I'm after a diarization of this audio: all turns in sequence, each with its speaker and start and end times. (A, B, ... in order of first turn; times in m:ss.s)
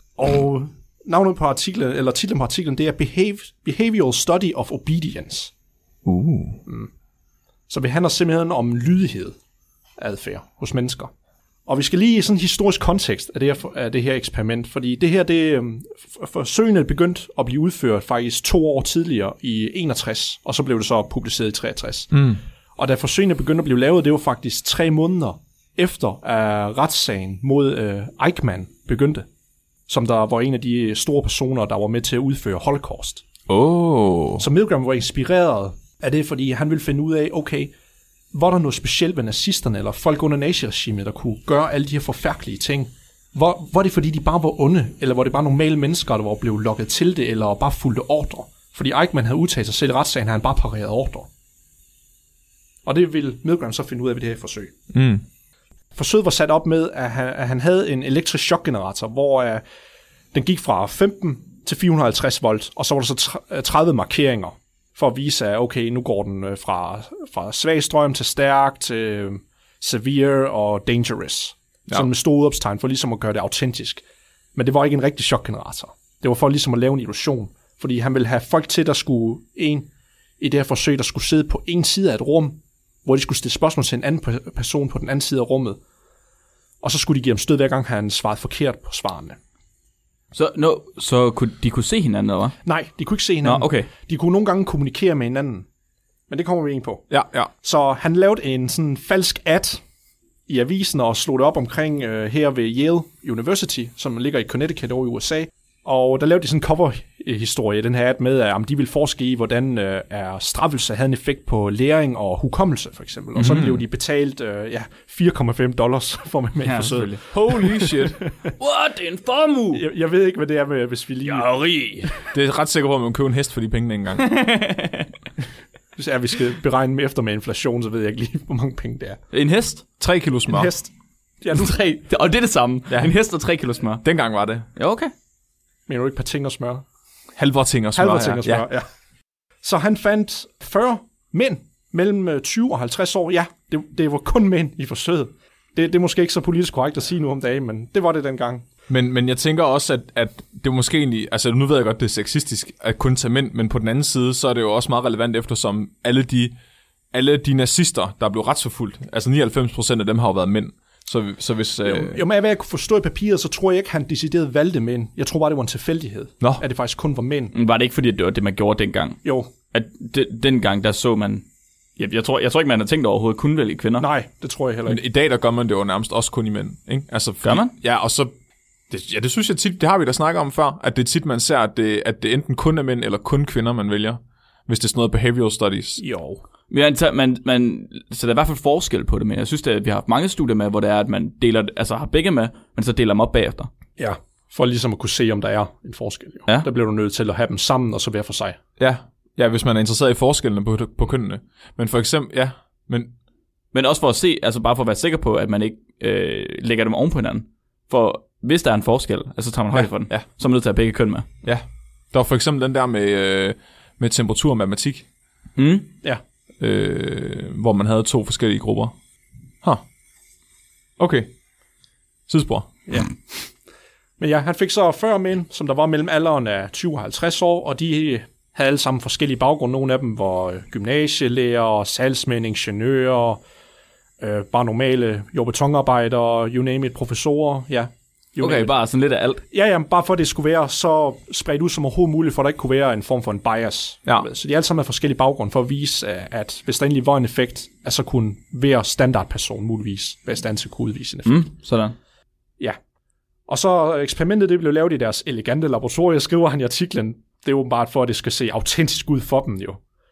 0:00.2-0:05.5 A
0:06.0-0:06.6 B
0:07.7-0:09.4 A
0:10.0-0:11.1 A
0:11.7-0:22.2 A
0:22.1-0:22.4 B
0:22.8-0:29.3 A
0:29.9-0:33.2 A
0:33.5-0:34.5 B
0:34.4-0:37.7 A
0:38.3-0:51.3 A
0:52.8-0:54.7 A
0:54.9-0:55.2 B
0:55.9-0:59.6 A
1:00.3-1:14.0 A
1:14.6-1:19.9 A
1:20.4-1:25.8 A
1:26.8-1:29.4 A
1:30.3-1:32.6 C
1:32.6-1:35.7 A
1:33.4-1:33.9 C
1:36.3-1:37.1 A
1:37.1-1:37.5 B
1:37.6-1:39.8 A
1:40.5-1:58.3 A
1:53.4-1:53.8 B
1:56.6-1:57.2 C
1:57.2-1:58.2 B
1:58.6-1:59.8 C
1:59.7-2:01.5 A
2:01.2-2:02.1 C
2:02.3-2:04.2 B
2:04.2-2:05.1 C
2:06.0-2:09.2 A
2:09.3-2:09.8 C
2:10.0-2:10.7 B
2:10.5-2:10.9 A
2:11.4-2:11.7 A
2:11.5-2:14.0 C
2:14.0-2:14.7 B
2:14.7-2:15.1 C
2:15.9-2:16.8 A
2:17.4-2:18.6 B
2:18.0-2:18.9 A
2:19.6-2:28.7 A
2:28.9-2:36.6 B
2:37.1-2:42.2 B
2:41.8-2:47.5 A
2:47.5-2:51.4 C
2:49.2-2:49.5 A
2:52.0-2:54.1 C
2:54.0-2:55.0 A
2:54.9-2:58.3 B
2:57.4-2:57.8 C
2:58.9-3:06.0 B
3:06.0-3:06.4 A
3:06.7-3:13.7 C
3:14.0-3:18.6 A
3:18.8-3:23.1 B
3:23.7-3:31.3 C
3:29.7-3:30.2 B
3:31.4-3:35.0 B
3:35.6-3:35.9 C
3:36.6-3:38.9 B
3:41.0-3:41.3 B
3:42.3-3:42.8 B
3:42.9-3:43.4 A
3:44.2-3:53.4 A
3:54.2-3:58.7 A
3:58.4-3:59.4 C
3:59.5-4:11.4 A
4:11.3-4:12.0 C
4:13.5-4:19.8 A